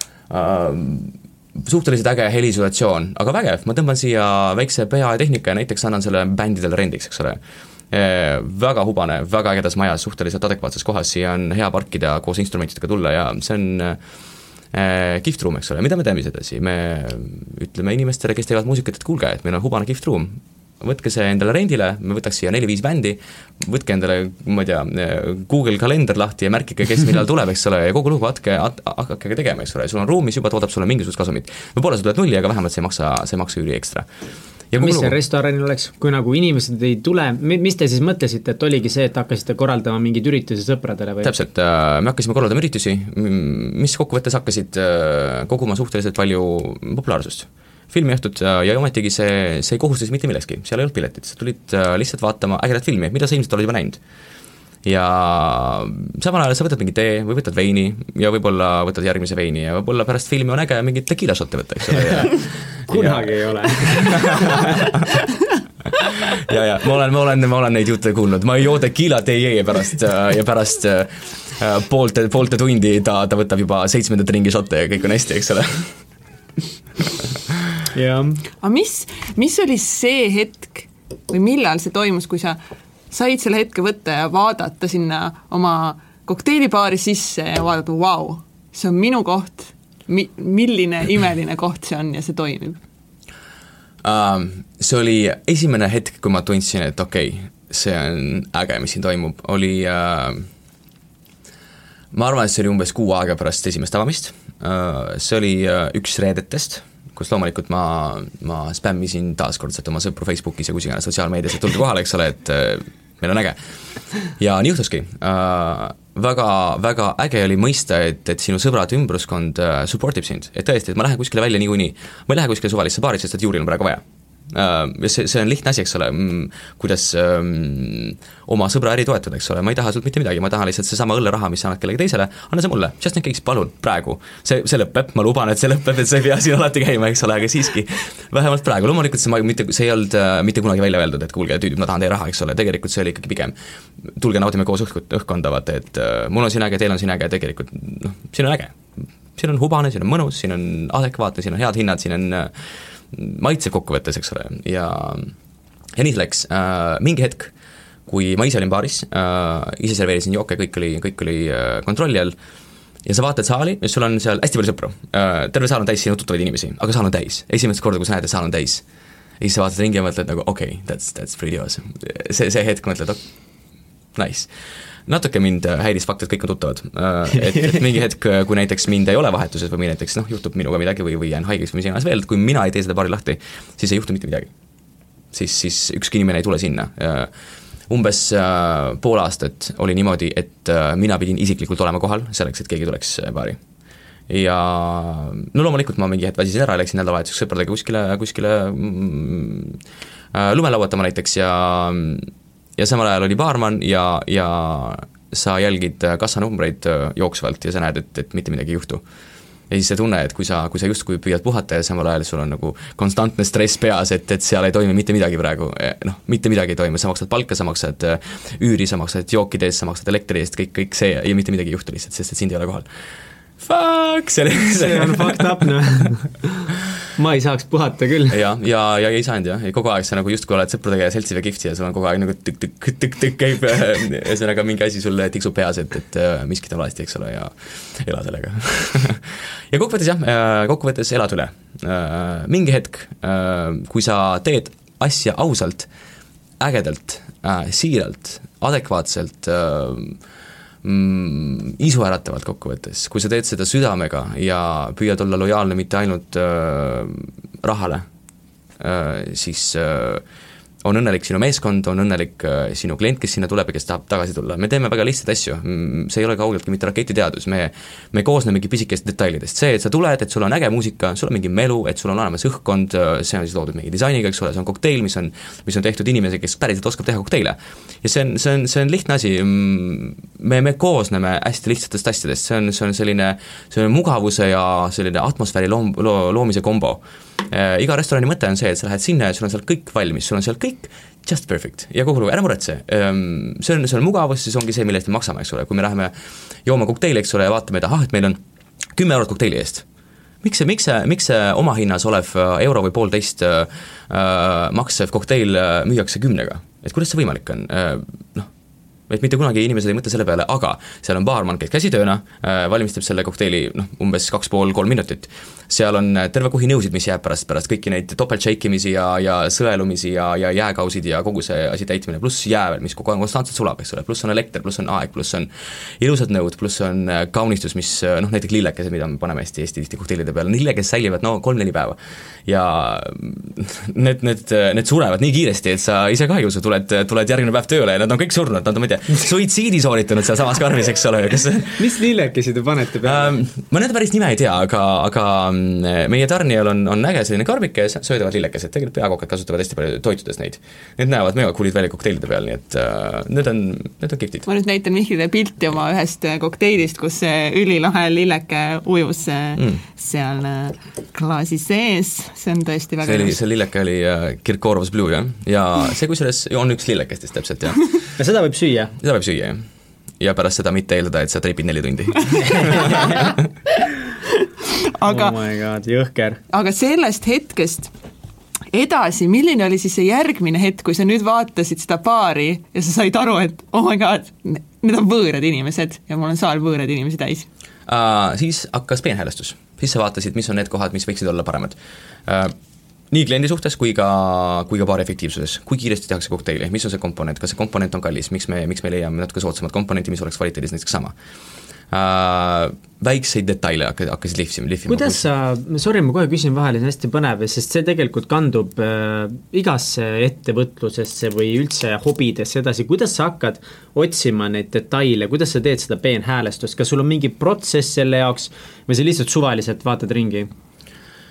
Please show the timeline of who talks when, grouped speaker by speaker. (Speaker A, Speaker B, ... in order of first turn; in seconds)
Speaker A: 0.3-14.0, 14.7-34.1, 34.7-35.1, 41.2-54.0, 54.8-64.7, 66.4-76.0, 94.0-100.5, 102.1-113.6, 114.2-152.5, 153.1-155.3, 155.9-157.5, 158.1-162.3, 163.0-168.8, 169.4-173.5, 174.1-174.5, 175.1-184.5, 185.3-187.3, 187.9-193.6, 194.3-199.8, 200.3-209.0, 209.7-222.9, 223.6-225.7, 228.3-245.9, 246.6-250.2, 250.8-258.1, 258.8-260.2, 260.8-296.1, 296.6-298.4, 298.9-299.8, 300.4-308.5, 309.1-341.8, 343.0-354.4, 363.0-367.9, 369.0-369.6, 370.2-373.4, 387.9-392.5, 393.1-401.1, 401.9-405.2
Speaker B: 34.8-41.3, 62.9-64.9, 77.9-78.4, 224.7-228.4, 341.8-343.4, 368.2-368.9, 375.0-376.4, 404.9-420.5
Speaker C: 78.6-82.6, 83.1-92.8, 354.4-363.4, 374.9-375.4, 376.5-377.9, 378.7-387.5